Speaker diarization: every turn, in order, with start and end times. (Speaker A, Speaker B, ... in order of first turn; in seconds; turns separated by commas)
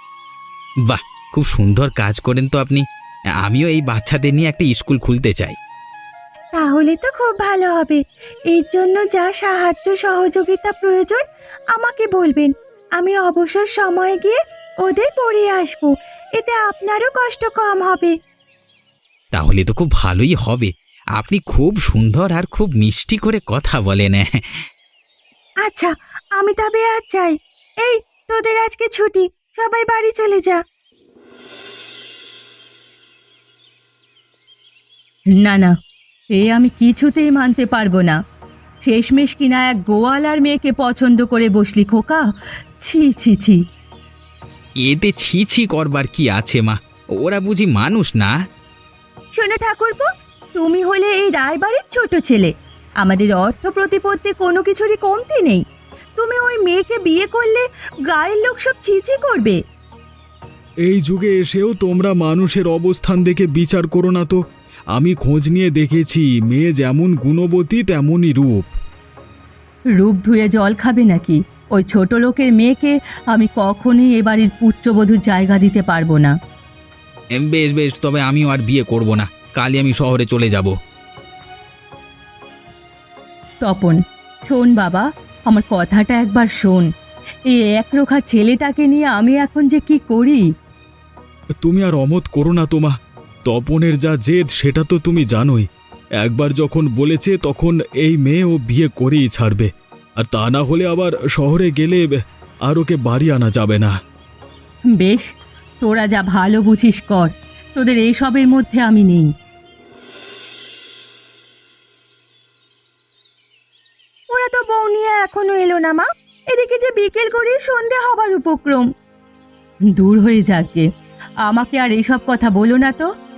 Speaker A: 0.8-2.8, Speaker A: 3.4-5.6, Speaker B: 6.5-18.1, Speaker A: 19.3-24.6, Speaker B: 25.6-30.6, Speaker B: 35.4-35.8, Speaker B: 36.3-38.2, Speaker B: 38.8-42.2, Speaker B: 42.8-43.6, Speaker A: 44.8-48.3, Speaker B: 49.4-55.6, Speaker B: 56.2-59.6, Speaker C: 60.8-64.4, Speaker C: 64.9-68.7, Speaker B: 70.0-76.3, Speaker A: 77.3-80.7, Speaker B: 83.6-86.9, Speaker B: 87.5-90.5, Speaker C: 91.6-92.9, Speaker C: 93.5-95.7, Speaker C: 96.2-102.1, Speaker C: 102.6-103.9, Speaker B: 105.0-105.3, Speaker B: 105.8-109.3, Speaker B: 114.3-118.9, Speaker B: 119.9-120.9, Speaker B: 121.5-123.1